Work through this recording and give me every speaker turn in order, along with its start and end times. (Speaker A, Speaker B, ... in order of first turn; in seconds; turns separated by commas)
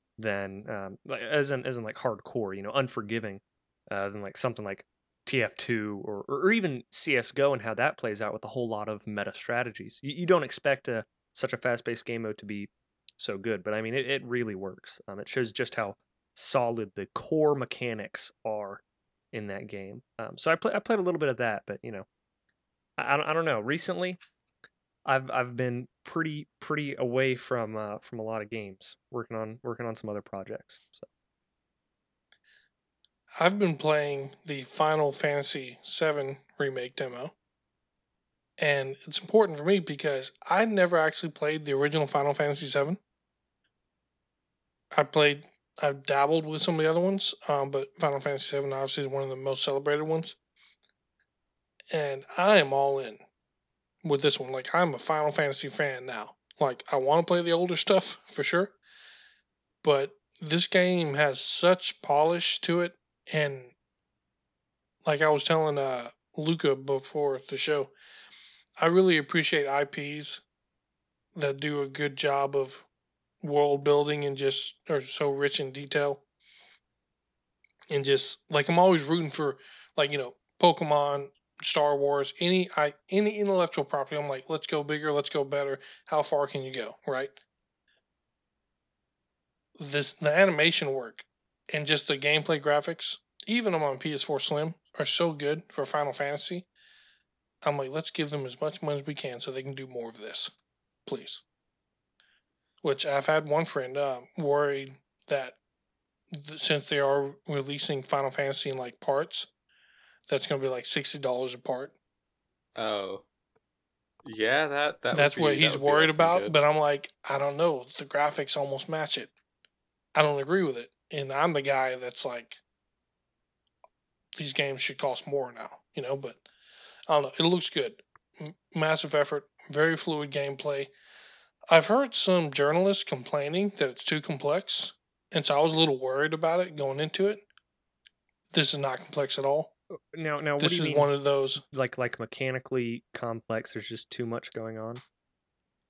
Speaker A: 0.2-18.8, Speaker A: 19.3-22.1, Speaker A: 23.0-24.2, Speaker A: 25.1-31.1, Speaker B: 33.4-37.3, Speaker B: 38.6-43.0, Speaker B: 44.9-50.4, Speaker B: 51.9-53.2, Speaker B: 54.0-58.8, Speaker B: 59.8-63.7, Speaker B: 65.0-67.9, Speaker B: 68.8-70.4, Speaker B: 71.3-72.8, Speaker B: 73.4-76.2, Speaker B: 77.9-87.3, Speaker B: 89.8-96.7, Speaker B: 97.6-100.5, Speaker B: 101.0-101.4, Speaker B: 102.8-105.6, Speaker B: 106.3-109.5, Speaker B: 110.3-111.9, Speaker C: 112.8-113.2, Speaker C: 114.2-116.5, Speaker B: 115.1-119.3, Speaker B: 120.1-122.6, Speaker B: 124.3-126.4, Speaker B: 127.1-130.9, Speaker B: 131.7-137.4, Speaker B: 138.5-139.7, Speaker A: 139.9-141.1, Speaker B: 140.6-141.6, Speaker A: 141.6-145.0